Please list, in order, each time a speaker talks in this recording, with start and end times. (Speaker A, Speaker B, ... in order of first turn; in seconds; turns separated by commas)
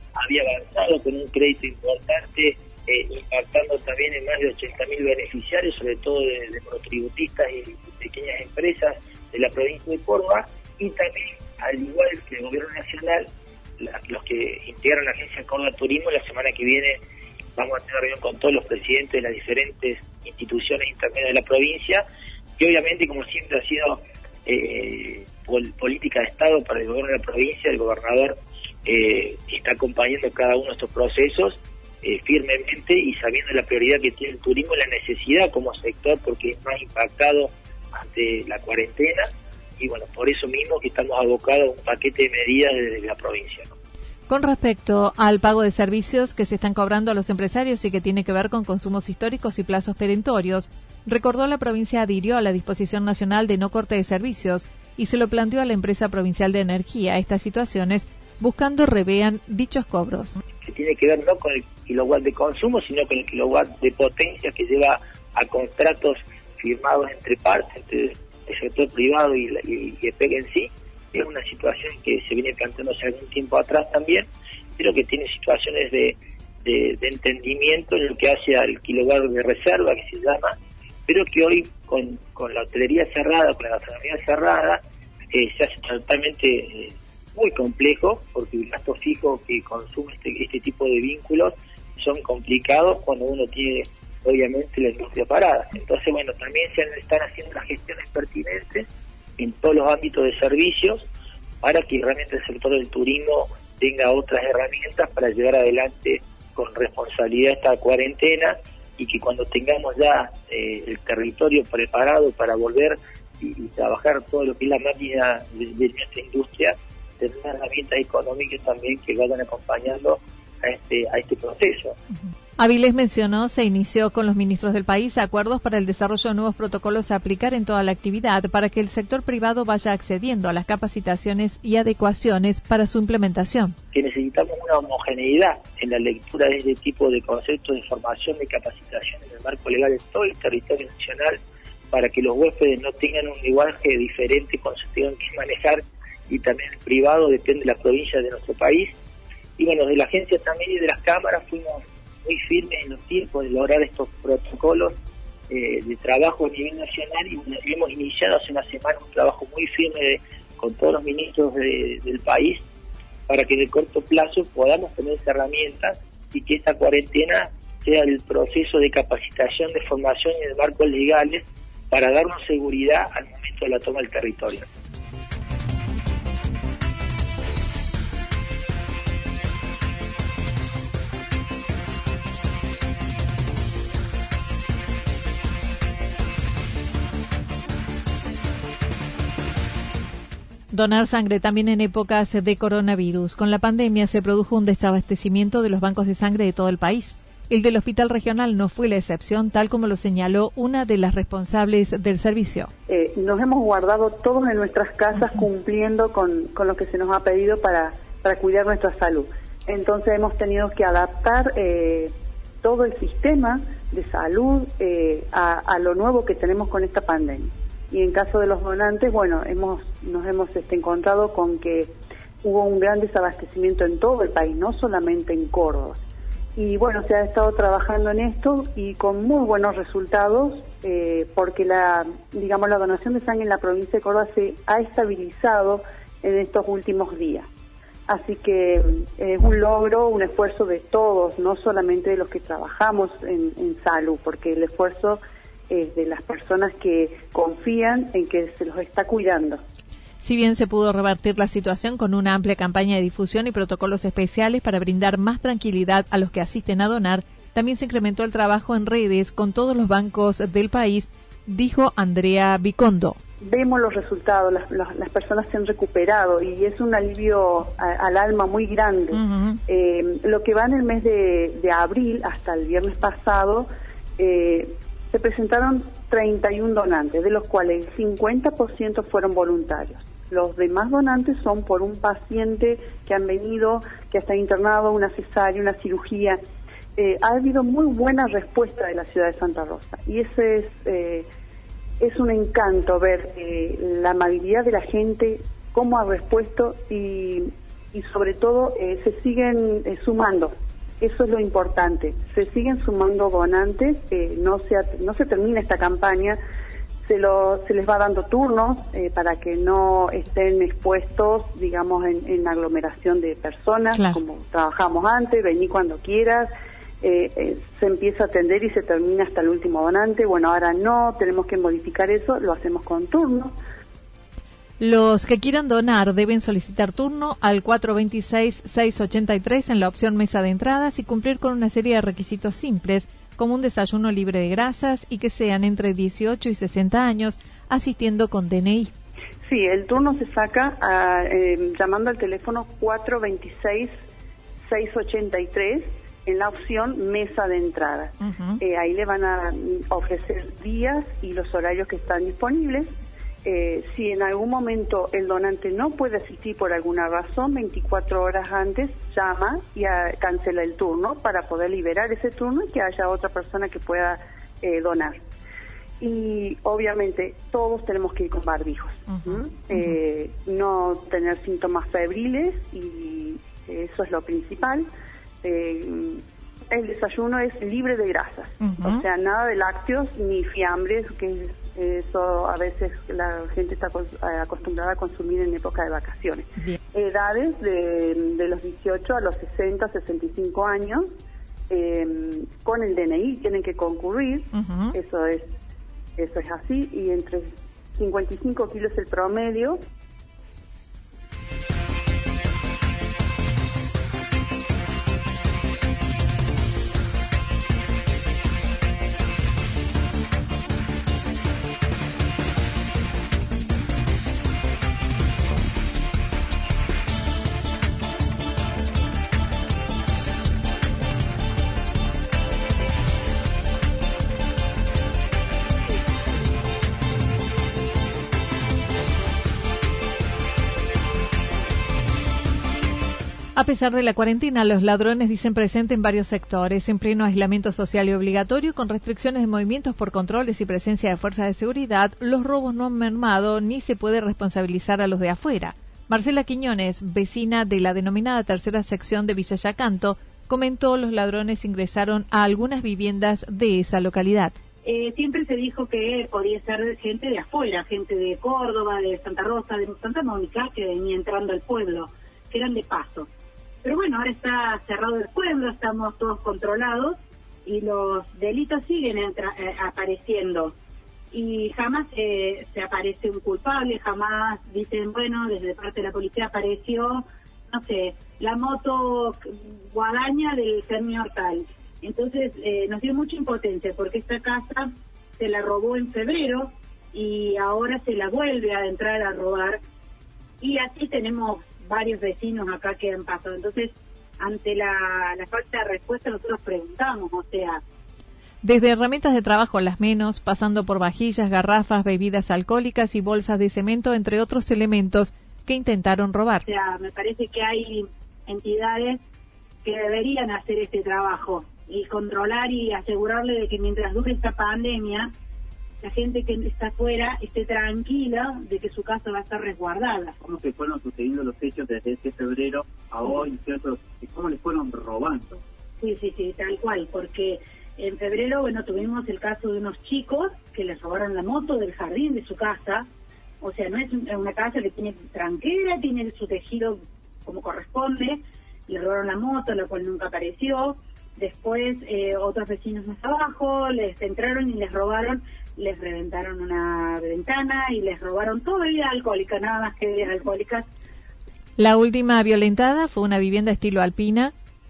Speaker A: 0.2-13.3, Speaker A: 13.8-17.0, Speaker A: 17.6-22.0, Speaker A: 22.6-28.4, Speaker A: 28.9-43.7, Speaker B: 44.3-60.4, Speaker A: 60.6-80.6, Speaker A: 81.1-84.8, Speaker A: 85.3-98.9, Speaker A: 99.4-101.1, Speaker A: 101.6-122.0, Speaker B: 122.6-133.8, Speaker A: 133.9-141.4, Speaker A: 141.9-148.9, Speaker A: 149.6-155.0, Speaker A: 155.5-162.7, Speaker A: 163.3-174.7, Speaker B: 190.7-202.7, Speaker C: 202.9-221.9, Speaker C: 222.4-226.0, Speaker C: 226.6-237.5, Speaker C: 238.1-249.6, Speaker B: 250.2-263.2, Speaker C: 263.4-273.7, Speaker B: 269.1-269.6, Speaker C: 274.2-286.4, Speaker C: 287.0-291.3, Speaker C: 292.0-306.4, Speaker C: 307.1-316.5, Speaker B: 313.9-314.2, Speaker C: 317.0-323.6, Speaker B: 324.8-338.9, Speaker C: 339.4-343.9, Speaker C: 344.6-352.9, Speaker B: 348.2-348.6, Speaker C: 353.4-365.2, Speaker C: 366.0-374.9, Speaker C: 375.4-391.1, Speaker B: 378.6-379.0, Speaker C: 391.7-395.5, Speaker B: 394.5-394.9, Speaker C: 396.2-399.8, Speaker B: 433.6-454.6, Speaker D: 454.9-463.3, Speaker D: 463.8-470.7, Speaker D: 471.3-479.4, Speaker D: 479.9-484.9, Speaker D: 485.4-489.8, Speaker D: 490.6-497.8, Speaker B: 498.6-506.6, Speaker D: 506.6-509.2, Speaker D: 509.8-515.3, Speaker D: 516.0-520.4, Speaker E: 520.4-525.6, Speaker D: 526.0-533.1, Speaker D: 533.6-550.9, Speaker B: 551.8-554.5